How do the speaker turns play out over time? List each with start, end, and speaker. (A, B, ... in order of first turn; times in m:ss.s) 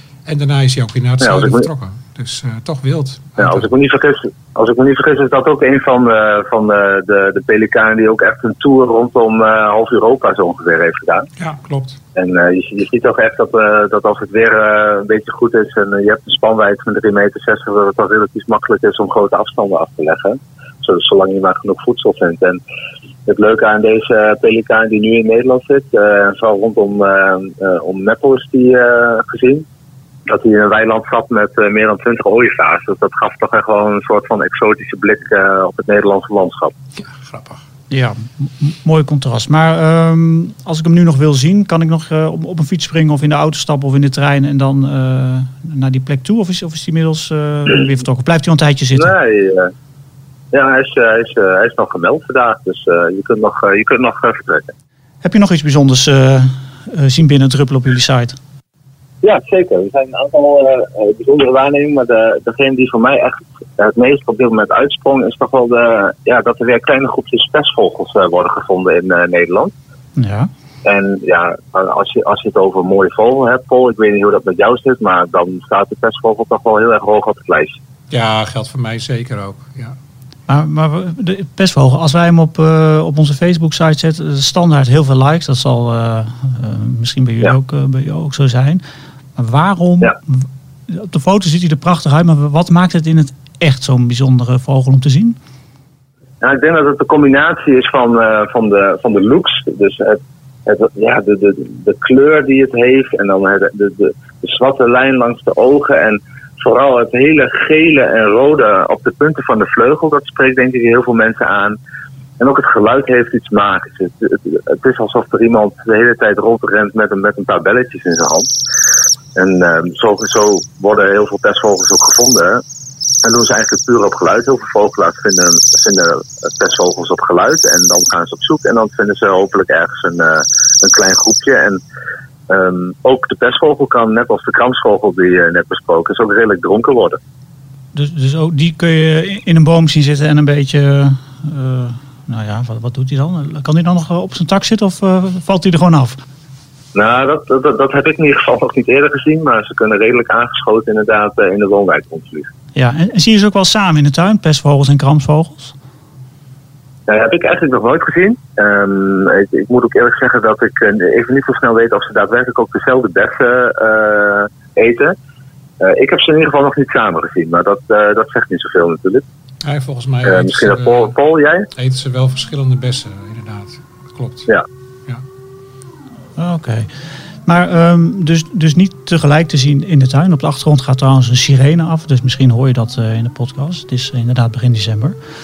0:00.2-0:03.7 A
0:01.2-0:01.7 B
0:03.4-0:11.3 B
0:11.4-0:12.0 A
0:12.2-0:22.6 B
0:23.3-0:29.6 B
0:30.3-0:36.7 B
0:37.0-0:37.6 A
0:37.9-0:49.1 C
0:49.0-0:49.7 B
0:50.5-0:54.7 B
0:55.2-0:58.4 C
0:59.2-1:09.7 B
1:10.2-1:10.5 C
1:10.8-1:17.8 B
1:18.1-1:20.0 A
1:20.5-1:28.8 C
1:29.4-1:35.4 C
1:36.4-1:51.8 B
1:52.4-1:58.5 B
1:59.3-2:02.6 B
2:03.2-2:11.8 B
2:12.5-2:17.2 B
2:17.9-2:26.2 C
2:26.9-2:32.5 B
2:32.7-2:35.7 C
2:37.1-2:45.1 B
2:45.8-2:49.2 B
2:49.6-2:51.1 A
2:50.2-2:51.7 B
2:51.7-2:54.5 A
2:56.4-2:56.9 C
2:57.4-3:05.2 C